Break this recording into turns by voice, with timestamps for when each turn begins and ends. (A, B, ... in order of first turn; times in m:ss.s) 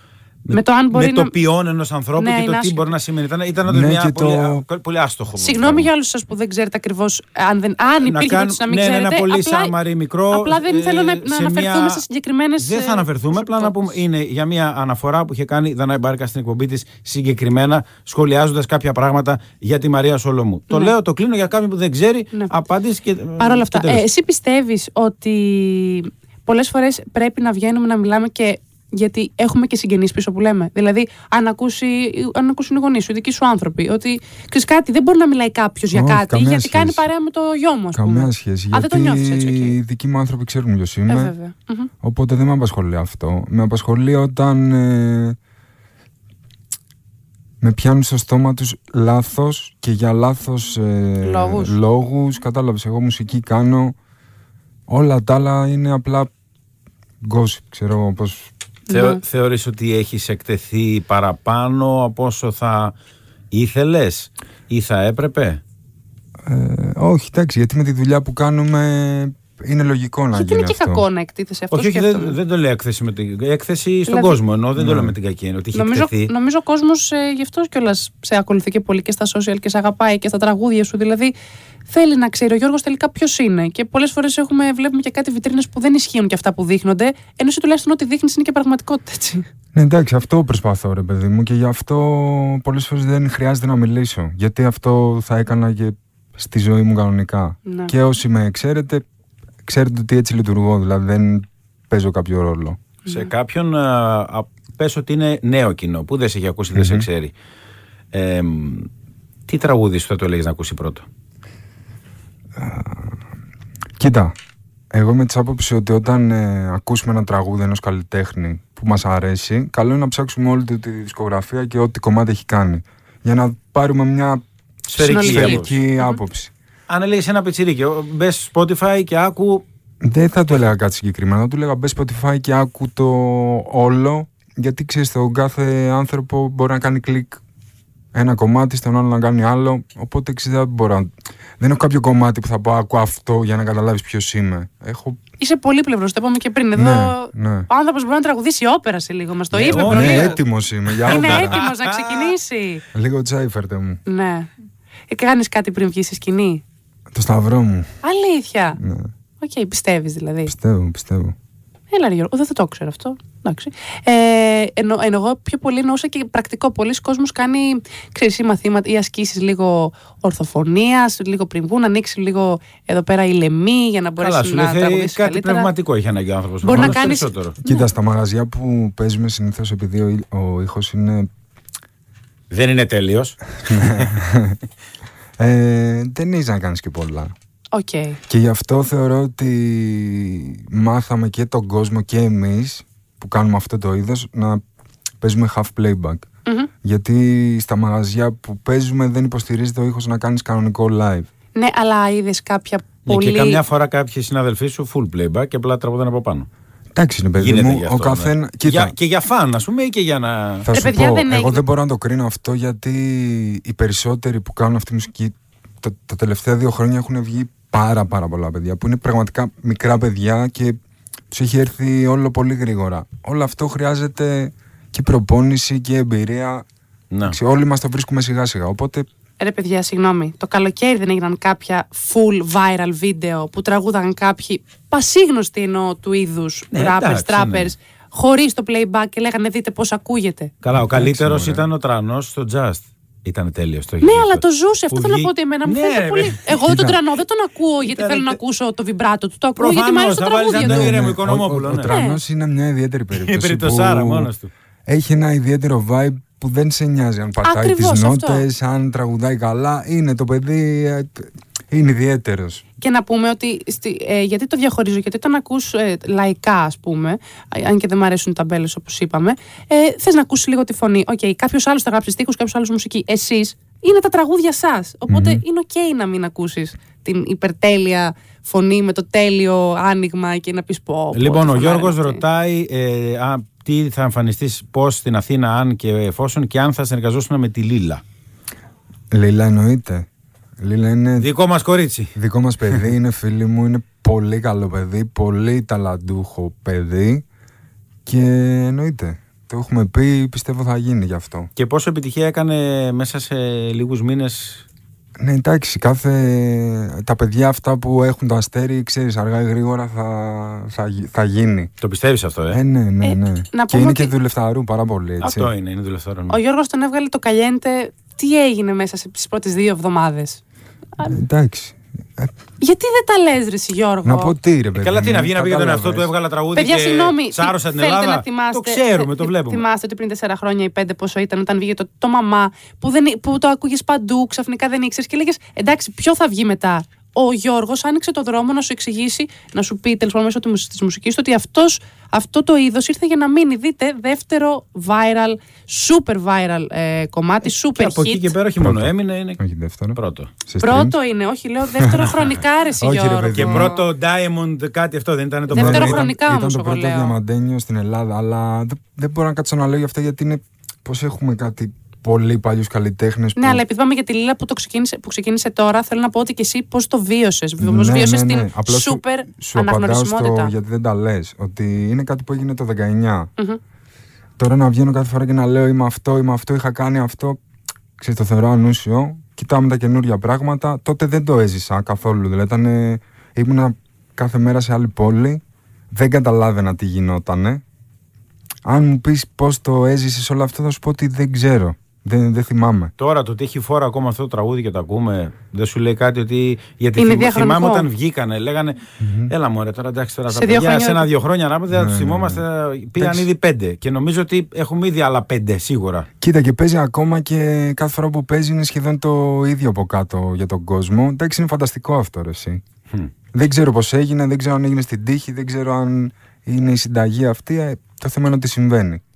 0:00.4-0:05.9 A
0:00.5-0:01.3 B
0:02.2-0:02.9 B
0:03.6-0:04.6 C
0:05.4-0:09.7 B
0:08.0-0:12.0 A
0:10.3-0:13.9 B
0:12.6-0:24.0 A
0:23.4-0:39.8 B
0:35.9-0:37.0 C
0:37.9-0:41.3 C
0:41.1-0:41.9 B
0:42.0-0:45.4 C
0:47.6-0:54.0 C
0:51.2-0:51.8 B
0:54.9-0:56.3 C
0:57.2-0:58.5 C
0:58.9-0:59.2 B
0:58.9-1:02.9 A
1:03.5-1:05.6 A
1:06.4-1:11.0 C
1:10.3-1:12.4 B
1:11.7-1:16.3 A
1:14.1-1:14.4 B
1:14.8-1:15.1 C
1:15.7-1:21.3 B
1:21.9-1:29.4 B
1:29.7-1:39.0 C
1:37.6-1:37.9 B
1:39.6-1:42.8 C
1:43.1-1:47.3 A
1:46.7-1:47.1 C
1:48.1-1:48.9 A
1:49.5-1:51.0 A
1:52.6-1:53.2 C
1:54.0-1:54.3 C
1:54.9-2:04.4 C
2:04.9-2:05.7 A
2:05.0-2:06.2 B
2:05.0-2:06.5 C
2:06.9-2:09.6 A
2:10.0-2:17.4 C
2:18.1-2:25.2 C
2:25.4-2:30.4 B
2:26.7-2:27.7 C
2:29.5-2:30.4 A
2:29.6-2:31.6 C
2:30.9-2:32.3 A
2:31.0-2:32.8 B
2:32.9-2:34.0 C
2:34.0-2:34.5 B
2:35.1-2:36.6 B
2:37.1-2:37.9 C
2:38.0-2:38.8 B
2:38.8-2:39.1 C
2:39.4-2:40.5 B
2:40.4-2:41.3 C
2:41.9-2:55.7 B
2:54.2-2:57.6 A
2:56.6-2:57.8 B
2:57.6-3:01.3 C
3:02.5-3:04.1 A
3:03.6-3:04.6 C
3:05.4-3:07.3 C
3:07.7-3:08.2 B
3:08.3-3:14.6 C
3:15.2-3:16.2 C
3:16.8-3:21.3 C
3:21.6-3:23.6 B
3:23.1-3:26.5 A
3:26.9-3:28.9 C
3:27.4-3:30.7 A
3:30.6-3:40.8 C
3:30.7-3:31.6 B
3:41.3-3:46.6 C
3:47.1-3:47.4 A
3:47.3-3:49.0 C
3:49.4-4:00.5 B
3:56.7-3:57.7 A
4:00.6-4:06.6 A
4:00.7-4:01.6 C
4:04.0-4:11.0 B
4:06.6-4:07.0 C
4:07.8-4:08.4 A
4:09.6-4:11.9 A
4:10.6-4:14.3 C
4:11.8-4:12.2 B
4:13.1-4:14.5 A
4:14.9-4:22.6 C
4:17.4-4:18.4 B
4:22.8-4:42.2 B
4:35.1-4:35.4 C
4:41.1-4:48.0 A
4:49.1-4:50.1 C
4:50.6-4:51.3 C
4:51.2-4:52.1 A
4:52.1-4:57.2 C
4:58.0-5:01.5 C
5:01.6-5:04.6 A
5:05.2-5:11.7 C
5:11.8-5:12.6 A
5:12.5-5:15.5 C
5:13.0-5:14.1 B
5:15.2-5:16.4 A
5:16.3-5:20.4 B
5:21.0-5:22.3 C
5:22.6-5:24.3 B
5:24.0-5:26.1 C
5:24.7-5:29.6 A
5:26.5-5:48.3 B
5:47.4-5:49.4 A
5:48.6-5:51.0 C
5:50.0-5:50.3 A
5:50.6-5:53.8 B
5:51.8-5:52.2 C
5:52.8-5:53.7 C
5:53.3-5:56.1 A
5:55.5-5:57.1 B
5:55.5-6:03.6 C
6:03.4-6:10.5 B
6:07.6-6:13.3 C
6:14.4-6:17.4 C
6:18.0-6:27.6 C
6:28.6-6:32.9 C
6:33.0-6:46.1 A
6:37.0-6:37.9 B
6:39.0-6:39.3 C
6:40.3-6:41.1 B
6:41.7-6:42.4 C
6:43.0-6:43.3 C
6:46.2-6:52.6 C
6:53.3-6:59.0 C